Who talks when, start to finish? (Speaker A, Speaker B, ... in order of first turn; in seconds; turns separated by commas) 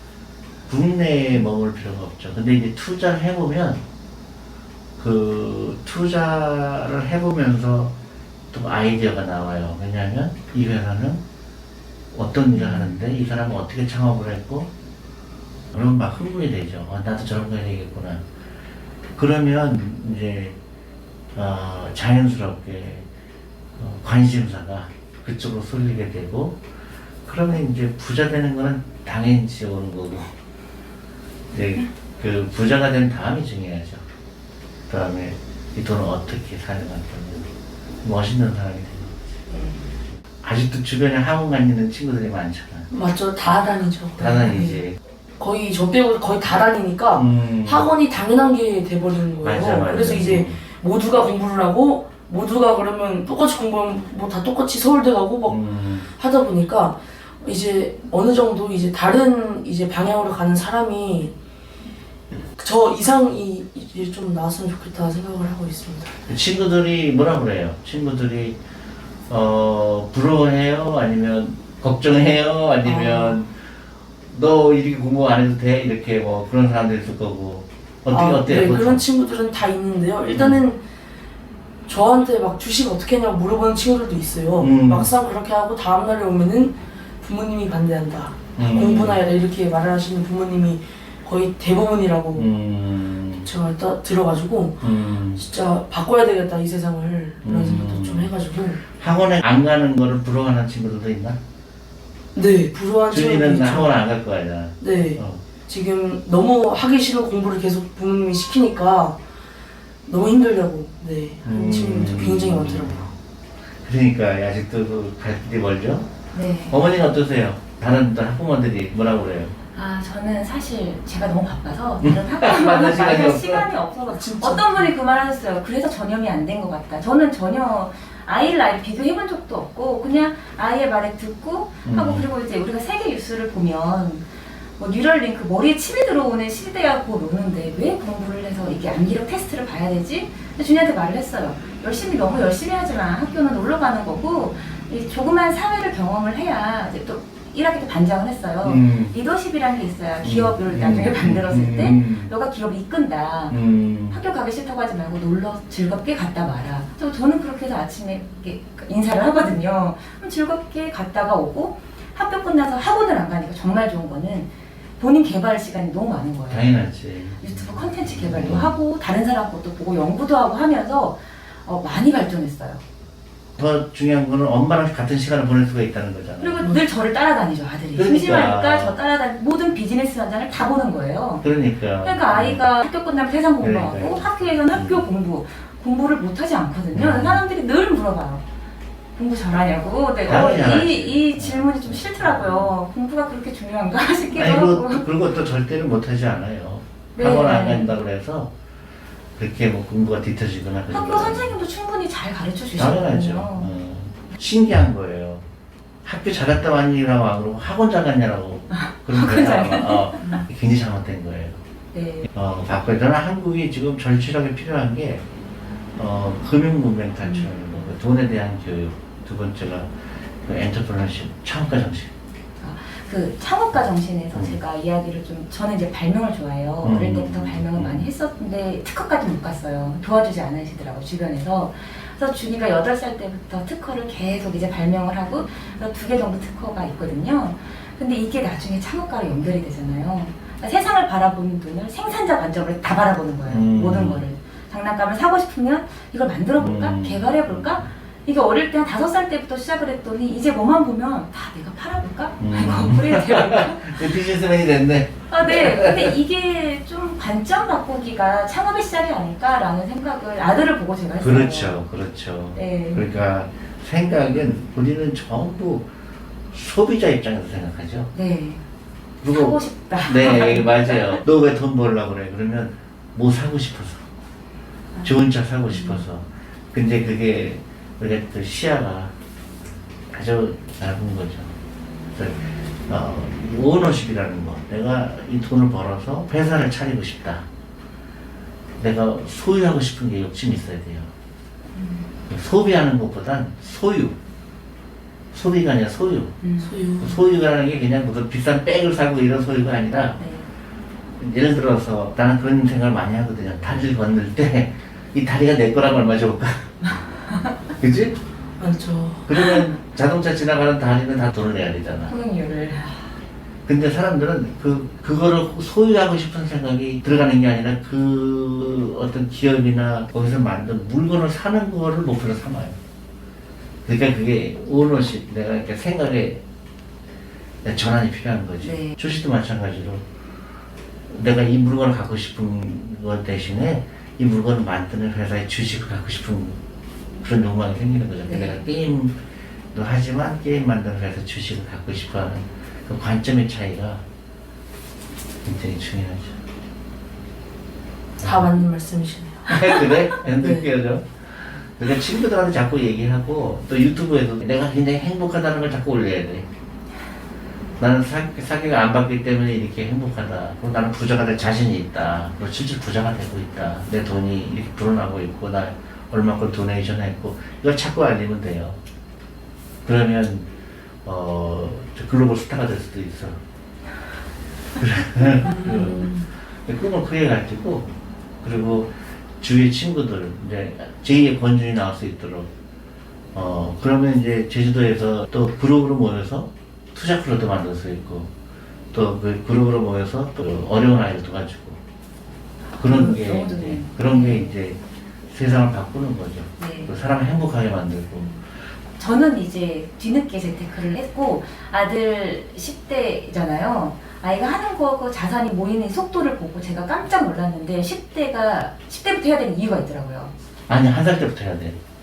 Speaker A: 0.7-3.8, Speaker A: 5.0-7.9, Speaker A: 8.5-11.2, Speaker A: 12.1-14.7, Speaker A: 15.7-18.2, Speaker A: 19.1-20.6, Speaker A: 21.3-23.1, Speaker A: 23.7-26.6, Speaker A: 27.2-30.3, Speaker A: 31.5-34.0, Speaker A: 34.9-37.5, Speaker A: 38.0-39.2, Speaker B: 39.5-39.8, Speaker A: 40.4-42.9, Speaker C: 42.9-44.8, Speaker A: 44.2-45.0, Speaker C: 45.4-61.3, Speaker A: 47.1-47.9, Speaker A: 49.4-50.6, Speaker A: 55.5-56.1, Speaker C: 62.6-66.2, Speaker A: 66.3-68.6, Speaker A: 69.3-73.5, Speaker C: 72.8-73.3, Speaker A: 74.3-79.0, Speaker C: 78.1-80.8, Speaker A: 80.3-80.6, Speaker C: 81.9-92.5, Speaker A: 84.6-85.1, Speaker A: 88.6-89.2, Speaker A: 92.3-93.5, Speaker C: 93.4-98.8, Speaker A: 94.8-95.4, Speaker A: 97.4-98.3, Speaker A: 99.0-101.4, Speaker C: 102.3-103.9, Speaker A: 103.1-105.4, Speaker C: 104.8-109.2, Speaker C: 110.0-113.1, Speaker A: 111.4-113.1, Speaker A: 113.8-116.1, Speaker B: 116.3-116.8, Speaker A: 116.7-119.5, Speaker B: 119.7-134.2, Speaker A: 122.0-123.7, Speaker C: 124.1-124.9, Speaker A: 131.8-132.3, Speaker B: 134.8-153.5, Speaker A: 148.6-149.1, Speaker A: 150.2-152.3, Speaker A: 153.5-154.2, Speaker B: 154.1-166.7, Speaker A: 166.5-168.7, Speaker B: 167.4-172.8, Speaker A: 173.6-176.6, Speaker B: 176.4-181.4, Speaker A: 177.9-179.0, Speaker A: 181.4-182.6, Speaker B: 182.0-188.4, Speaker A: 183.6-185.0, Speaker A: 186.9-187.4, Speaker B: 189.2-195.0, Speaker A: 190.2-192.7, Speaker A: 194.3-198.5, Speaker B: 197.1-197.9, Speaker A: 199.4-201.5, Speaker B: 200.9-203.7, Speaker A: 202.7-205.4, Speaker A: 206.0-211.6, Speaker B: 208.7-210.4, Speaker B: 211.9-212.3, Speaker A: 212.3-215.2, Speaker A: 216.0-222.1, Speaker B: 222.6-254.1, Speaker A: 226.8-228.1, Speaker A: 243.5-244.2, Speaker A: 246.6-247.8, Speaker A: 252.4-256.1, Speaker B: 255.3-261.8, Speaker A: 261.2-265.9, Speaker B: 262.5-263.0, Speaker A: 266.5-268.1, Speaker B: 268.1-268.6, Speaker A: 269.2-274.1, Speaker B: 269.3-271.2, Speaker A: 275.0-279.1, Speaker B: 275.7-276.0, Speaker A: 280.1-281.5, Speaker A: 282.1-287.4, Speaker A: 288.8-291.1, Speaker B: 291.8-292.1, Speaker A: 292.3-294.1, Speaker A: 295.3-296.4, Speaker B: 296.4-296.8, Speaker C: 296.6-297.2, Speaker A: 297.0-300.2, Speaker B: 300.2-300.5, Speaker A: 301.2-306.9, Speaker B: 306.8-307.6, Speaker A: 307.8-308.1, Speaker C: 308.6-309.4, Speaker A: 309.3-312.1, Speaker B: 312.1-313.1, Speaker A: 313.6-322.8, Speaker A: 323.8-326.4, Speaker A: 327.6-330.0, Speaker B: 328.6-329.0, Speaker A: 331.1-336.6, Speaker A: 337.2-339.1, Speaker B: 338.3-338.6, Speaker A: 339.7-344.0, Speaker A: 345.4-346.4, Speaker C: 348.2-349.8, Speaker A: 349.5-356.5, Speaker C: 350.4-350.7, Speaker A: 357.8-368.8, Speaker A: 369.8-370.5, Speaker A: 371.0-373.4, Speaker A: 374.8-382.5, Speaker C: 375.5-376.2, Speaker A: 383.3-388.3, Speaker A: 388.9-391.8, Speaker B: 392.7-394.5, Speaker A: 392.8-398.3, Speaker B: 396.6-396.9, Speaker B: 399.0-410.3, Speaker A: 410.7-411.8